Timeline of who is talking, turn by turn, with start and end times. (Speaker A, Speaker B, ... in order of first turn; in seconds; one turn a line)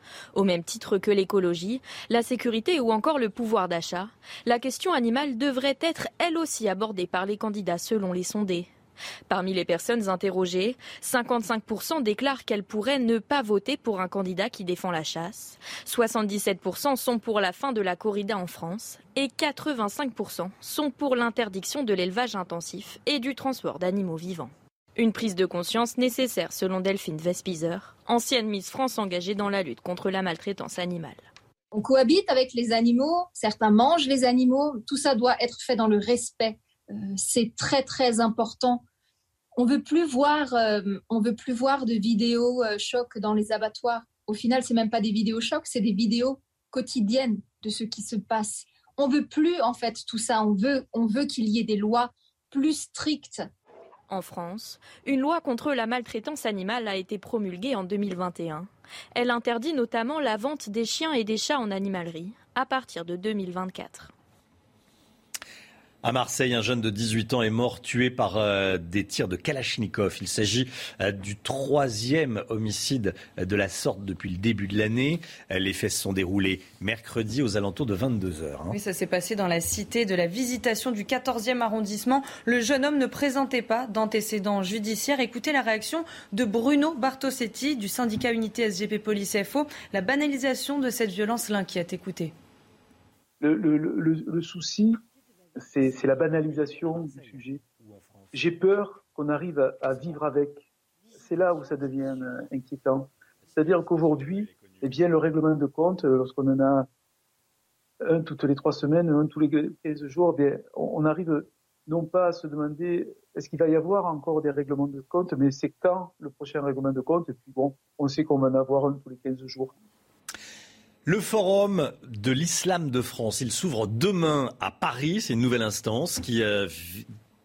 Speaker A: 0.3-8.7
Speaker A: 9.3-31.3
Speaker B: 31.7-38.8
Speaker B: 39.6-53.5
Speaker A: 54.1-64.1
Speaker C: 66.0-78.8
Speaker D: 78.7-92.3
Speaker E: 93.4-95.0
Speaker E: 95.6-97.6
Speaker E: 98.3-100.7
Speaker E: 101.2-106.9
Speaker E: 108.0-119.7
Speaker C: 121.1-127.1